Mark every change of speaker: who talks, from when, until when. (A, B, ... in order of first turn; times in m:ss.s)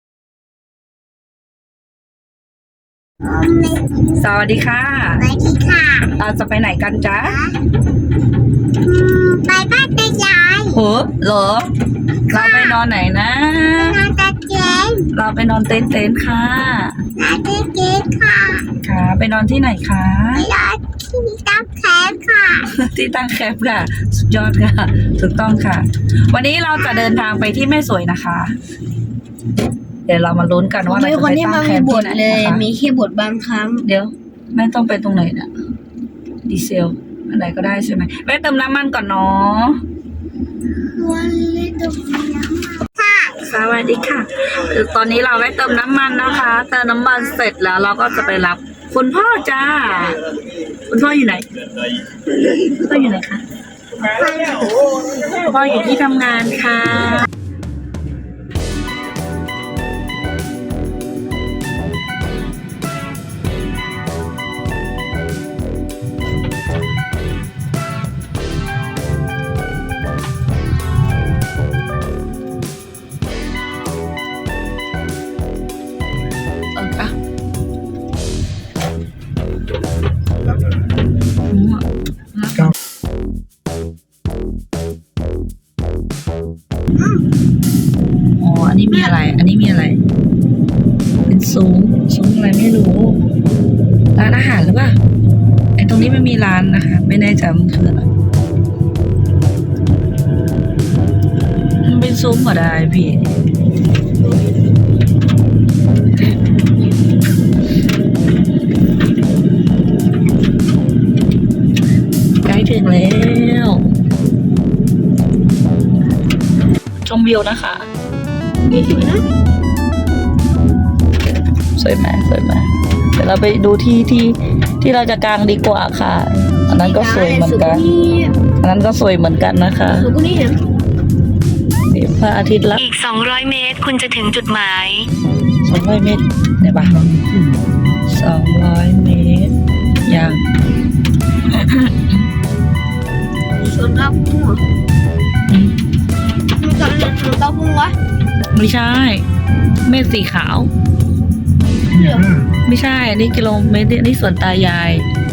0:03.3-0:04.0 A
0:04.2-0:05.2 B
0:05.2-0:06.1 A
0:06.2-0:07.4 B
0:07.2-0:07.5 A
0:08.8-0:10.8 A
0:10.7-0:11.7 B
0:12.3-0:14.0 B
0:12.3-0:12.8 A
0:13.8-0:15.1 A
0:15.1-0:17.0 B
0:17.2-0:18.6 A
0:18.8-0:20.5 B
0:20.3-0:22.6 A
0:22.7-0:28.5 B
0:30.0-0:32.6 B
0:30.8-0:33.8 C
0:33.8-0:35.5 B
0:36.4-0:39.8 B
0:41.0-0:43.3 A
0:43.4-0:50.2 B
0:50.9-0:51.5 B
0:52.4-0:53.4 B
0:54.1-0:54.7 A
0:55.4-0:57.3 B
1:16.7-1:17.1 B
1:21.5-1:22.7 B
1:27.0-1:27.2 C
1:28.4-1:30.0 B
1:28.9-1:29.2 C
1:31.2-1:33.2 B
1:34.1-1:35.0 B
1:35.8-1:38.0 B
1:41.8-1:43.2 B
1:52.4-1:53.8 B
1:57.0-1:57.9 B
1:58.7-1:59.2 C
2:01.8-2:07.8 B
2:06.7-2:08.3 C
2:08.6-2:10.1 B
2:09.9-2:10.6 C
2:11.9-2:12.8 B
2:12.8-2:15.1 D
2:15.6-2:17.0 B
2:18.0-2:19.5 B
2:20.0-2:20.4 B
2:21.4-2:22.2 B
2:23.7-2:24.6 C
2:25.5-2:25.8 B
2:26.6-2:27.9 C
2:28.5-2:29.2 B
2:29.8-2:30.7 B
2:31.9-2:35.0 B
2:32.0-2:32.3 C